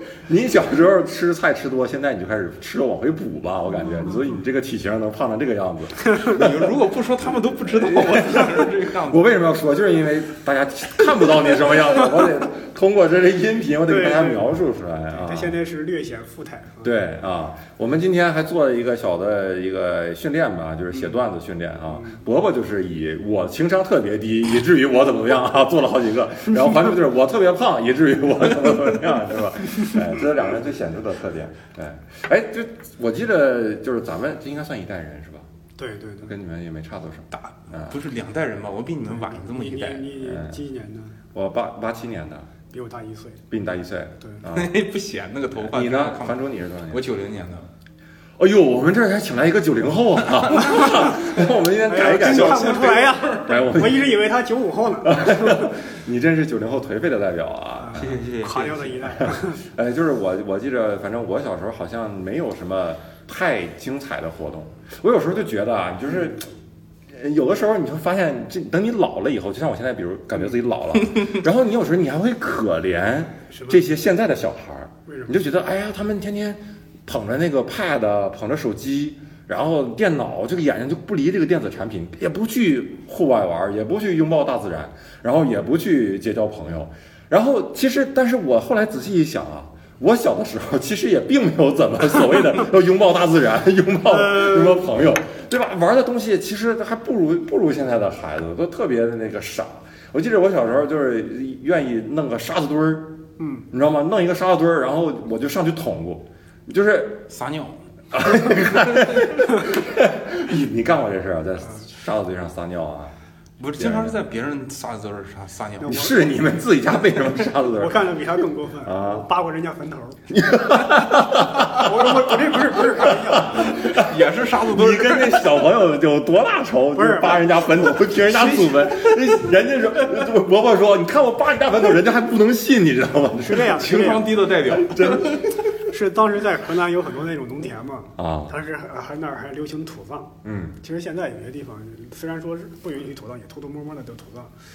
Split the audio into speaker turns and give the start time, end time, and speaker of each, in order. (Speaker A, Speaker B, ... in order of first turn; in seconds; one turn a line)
Speaker A: 0.3-6.5
Speaker B: 6.2-9.4
Speaker A: 7.7-15.6
Speaker C: 13.9-14.5
Speaker C: 15.1-16.9
Speaker A: 16.8-35.5
Speaker C: 21.9-22.2
Speaker C: 35.8-36.4
Speaker A: 36.2-38.0
Speaker B: 37.9-40.2
Speaker C: 39.1-41.2
Speaker A: 40.2-40.6
Speaker A: 41.3-42.5
Speaker C: 42.7-43.4
Speaker A: 43.5-44.7
Speaker B: 44.5-47.7
Speaker A: 45.5-47.0
Speaker A: 48.4-54.2
Speaker B: 50.5-51.0
Speaker C: 50.7-51.0
Speaker C: 51.9-55.7
Speaker B: 52.0-53.5
Speaker A: 55.0-58.2
Speaker C: 57.8-59.6
Speaker B: 58.0-59.1
Speaker A: 59.2-66.5
Speaker A: 67.1-103.2
Speaker C: 73.5-73.8
Speaker C: 75.1-75.4
Speaker C: 94.1-94.9
Speaker C: 103.4-103.7
Speaker A: 103.7-107.3
Speaker B: 107.3-107.9
Speaker A: 108.1-113.1
Speaker B: 108.7-109.1
Speaker B: 113.6-116.1
Speaker A: 113.8-114.2
Speaker C: 115.8-116.3
Speaker A: 115.8-118.1
Speaker C: 117.7-120.2
Speaker A: 118.8-119.2
Speaker A: 120.3-135.4
Speaker C: 121.6-123.9
Speaker B: 123.6-125.5
Speaker C: 127.0-127.9
Speaker B: 128.2-129.2
Speaker C: 133.3-134.3
Speaker B: 133.7-135.5
Speaker C: 135.9-144.5
Speaker A: 138.2-138.6
Speaker A: 140.4-140.8